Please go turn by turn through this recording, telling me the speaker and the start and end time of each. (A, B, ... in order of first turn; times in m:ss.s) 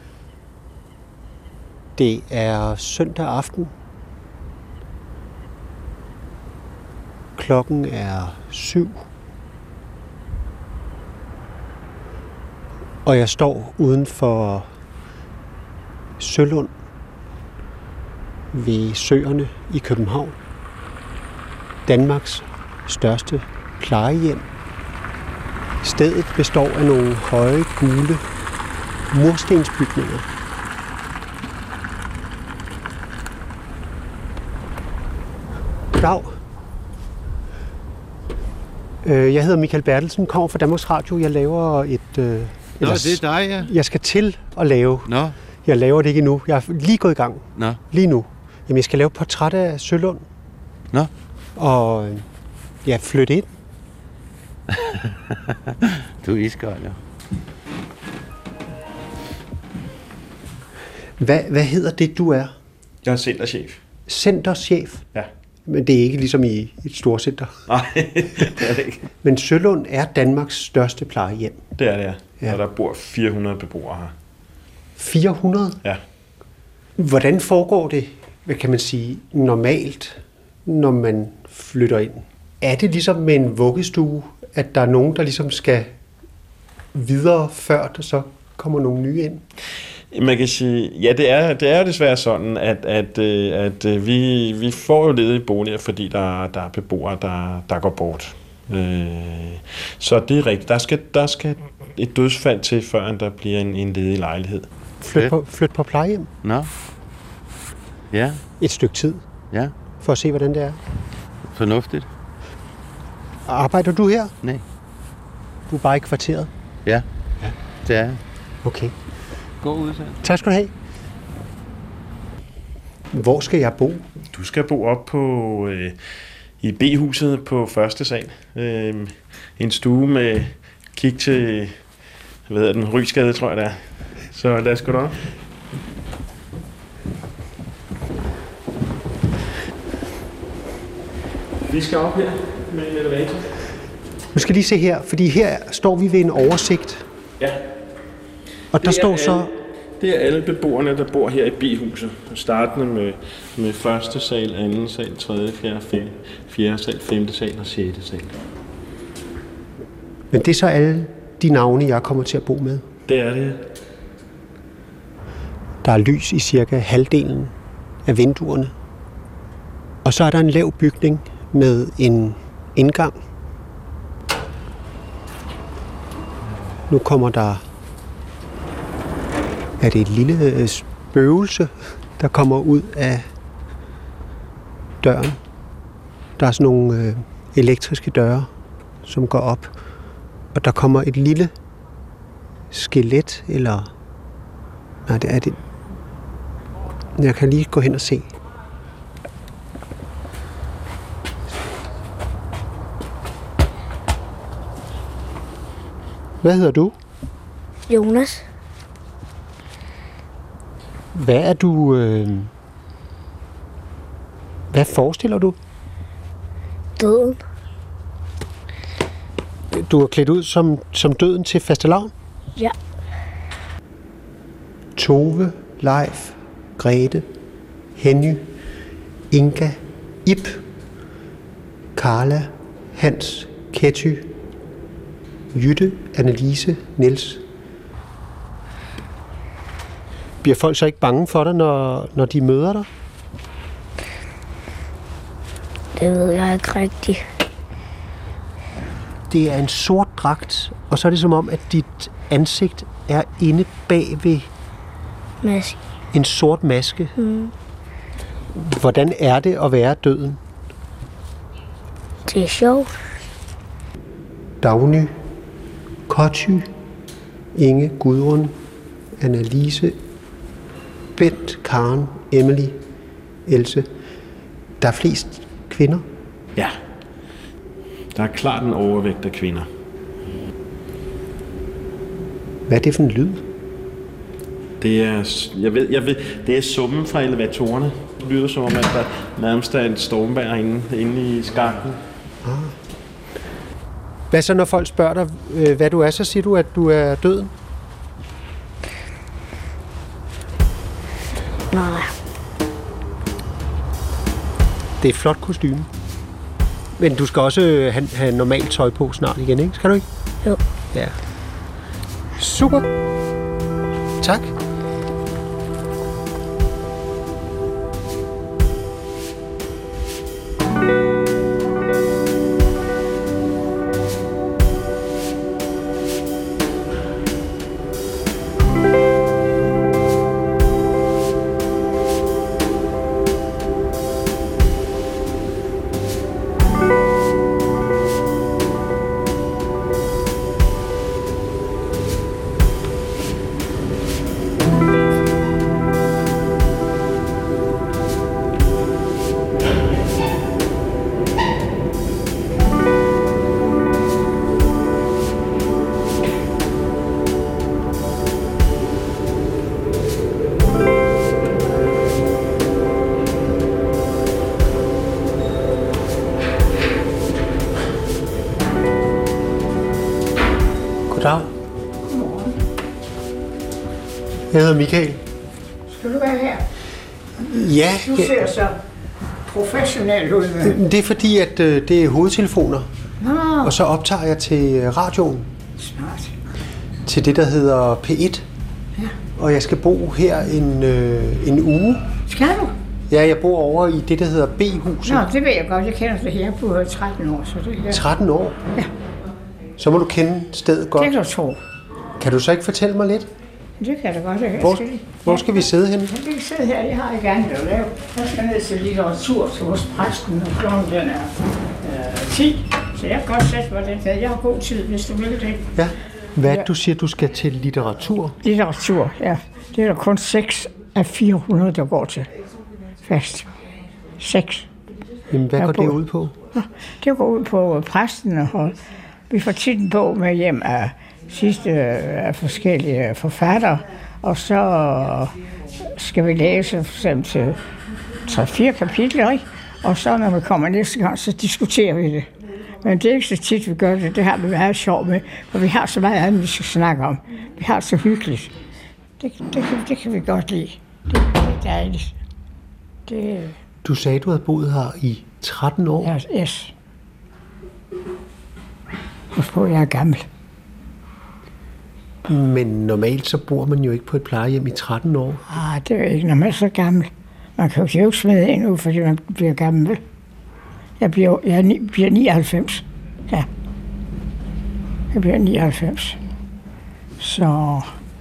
0:02.0-0:03.7 A
0:07.4-0:09.0 A
0:13.0-0:14.7 A
0:16.2-0:16.7 A
0:18.5-0:20.4 A
0:21.8-0:24.4 A
0:25.8-0:28.2 A
0:29.1-0:30.2 A
0:35.9-0:36.4 A
0:39.0-0:45.1 A
0:42.8-0:43.7 B
0:45.0-0:45.3 B
0:45.6-0:50.2 A
0:51.6-0:52.2 A
0:52.8-0:53.5 A
0:54.7-0:55.5 B
0:56.2-0:57.0 B
1:01.2-1:02.5 A
1:03.0-1:03.8 C
1:04.1-1:05.0 A
1:05.6-1:07.5 A
1:07.7-1:09.0 C
1:09.2-1:11.6 A
1:11.8-1:14.1 C
1:15.0-1:15.8 A
1:17.0-1:25.9 A
1:26.9-1:29.4 A
1:30.1-1:44.7 C
1:45.0-1:46.3 A
1:46.4-1:46.7 B
1:48.1-1:48.4 B
1:48.6-1:49.2 A
1:50.0-1:50.8 A
1:51.5-1:52.1 B
1:53.4-1:54.3 A
1:55.7-1:56.5 A
1:57.8-1:58.2 B
1:58.6-1:58.9 A
1:59.6-2:00.2 B
2:00.2-2:00.7 A
2:03.1-2:04.0 A
2:04.3-2:06.0 C
2:06.6-2:11.7 C
2:12.5-2:13.8 C
2:14.3-2:15.2 C
2:21.7-2:23.5 C
2:24.3-2:27.0 A
2:28.7-2:29.5 A
2:28.8-2:29.5 C
2:30.0-2:38.3 C
2:40.3-2:42.8 A
2:43.1-2:43.6 C
2:45.8-2:47.5 A
2:48.0-2:48.7 A
2:50.0-2:53.2 A
2:56.9-2:57.6 A
2:59.8-3:03.3 A
3:05.0-3:05.4 A
3:06.4-3:08.5 A
3:09.0-3:09.7 A
3:10.5-3:11.5 A
3:12.7-3:13.9 A
3:15.0-3:15.6 A
3:17.2-3:18.3 A
3:26.4-3:26.9 A
3:27.9-3:28.4 D
3:31.1-3:32.5 A
3:34.7-3:35.6 A
3:37.0-3:37.4 D
3:39.7-3:42.1 A
3:45.0-3:47.3 A
3:48.0-3:48.4 A
3:49.3-3:50.6 A
3:52.0-3:54.3 A
3:55.5-3:57.4 A
4:00.4-4:02.9 A
4:06.0-4:07.2 D
4:09.3-4:14.5 A
4:15.4-4:15.8 D
4:16.1-4:17.1 A
4:17.2-4:17.5 D
4:18.5-4:20.4 A
4:22.3-4:22.9 D
4:24.6-4:25.1 A
4:26.1-4:26.7 A
4:27.5-4:28.6 A
4:29.2-4:30.0 A
4:31.2-4:32.8 A
4:33.4-4:33.9 A
4:34.8-4:36.0 A
4:38.1-4:39.6 C
4:42.7-4:43.4 A
4:44.8-4:52.0 C
4:52.4-4:52.8 A
4:54.3-4:57.5 A
5:01.7-5:02.1 D
5:05.0-5:05.9 A
5:07.0-5:10.0 A
5:12.4-5:12.9 A
5:14.2-5:14.5 A
6:11.1-6:11.5 A
6:12.0-6:12.5 E
6:14.5-6:15.2 A
6:15.9-6:16.6 E
6:17.4-6:18.3 A
6:17.9-6:18.8 E
6:19.5-6:20.8 E
6:20.6-6:22.9 A
6:23.2-6:23.7 E
6:23.6-6:25.5 A
6:25.8-6:26.3 E
6:27.0-6:28.4 A
6:29.3-6:32.0 A
6:32.3-6:32.7 E
6:33.1-6:35.3 A
6:35.0-6:38.0 E
6:37.9-6:38.6 A
6:39.8-6:41.1 A
6:41.0-6:41.6 E
6:42.2-6:43.3 A
6:43.8-6:45.5 E
6:44.6-6:46.1 A
6:46.1-6:55.7 E
6:55.8-6:58.4 A
6:58.4-7:02.3 E
7:03.0-7:03.5 E
7:04.2-7:04.7 E
7:05.3-7:06.3 A
7:05.6-7:05.9 E
7:06.6-7:08.8 E
7:09.3-7:15.3 E
7:15.9-7:17.6 E
7:18.2-7:22.3 E
7:22.8-7:28.5 E
7:29.2-7:32.1 E
7:33.1-7:33.6 E
7:33.8-7:36.1 A
7:36.0-7:36.7 E
7:39.3-7:40.2 E
7:42.2-7:45.6 A
7:45.5-7:50.0 E
7:51.0-7:53.5 E
7:55.1-7:56.2 E
7:57.2-7:57.9 E